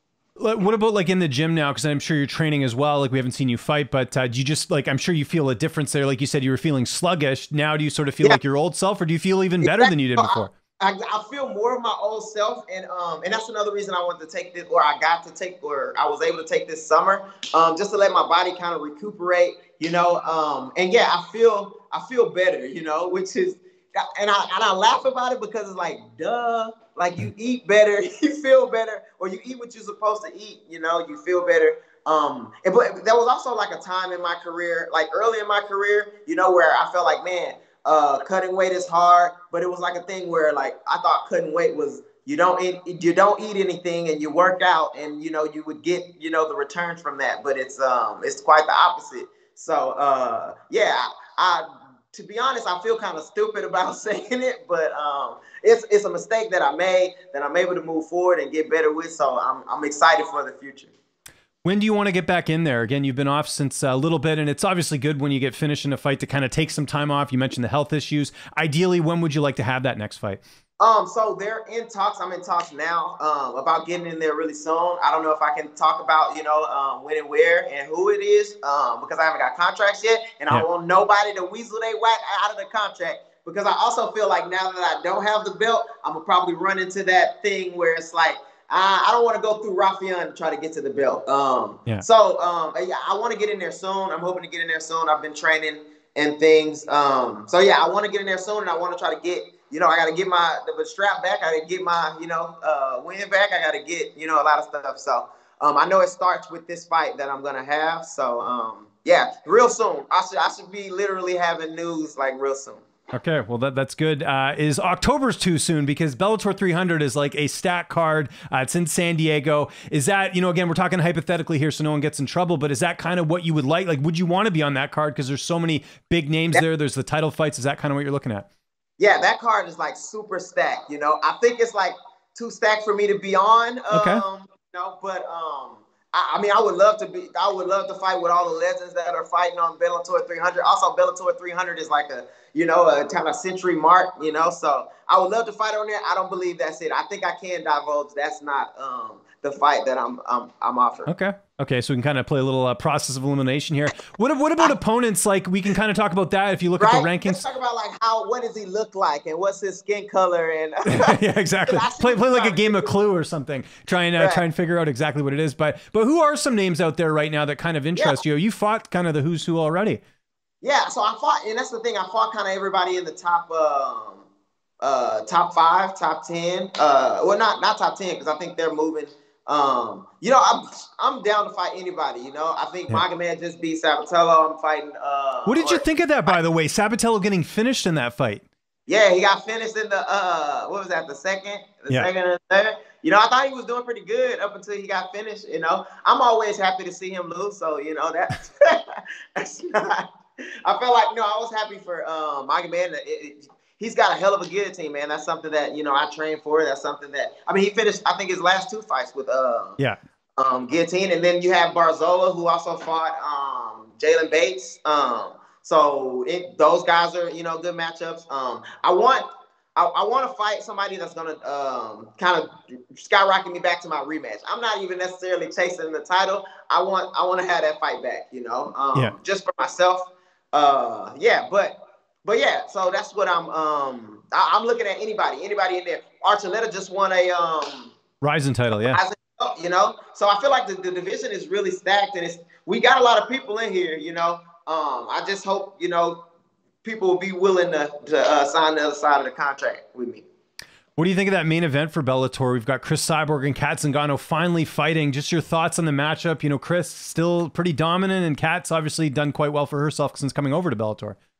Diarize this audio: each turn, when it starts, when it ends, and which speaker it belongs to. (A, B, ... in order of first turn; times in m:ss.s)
0:00.4-0:10.5 A
0:09.6-1:00.9 B
1:01.6-1:10.4 A
1:10.8-1:52.8 B
1:53.1-2:08.5 A
2:09.0-2:31.1 B
2:13.9-2:14.2 A
2:31.1-2:37.4 A
2:36.8-2:43.0 B
2:40.9-2:50.0 A
2:44.2-2:44.4 B
2:48.0-2:48.2 B
2:50.6-2:54.3 B
2:54.8-3:06.4 B
3:05.5-3:08.4 A
3:08.9-3:20.0 B
3:20.6-3:29.8 B
3:30.4-3:39.2 B
3:39.8-3:58.0 B
3:58.2-3:59.0 A
3:58.8-4:06.2 B
4:06.8-4:10.2 B
4:11.0-4:21.2 A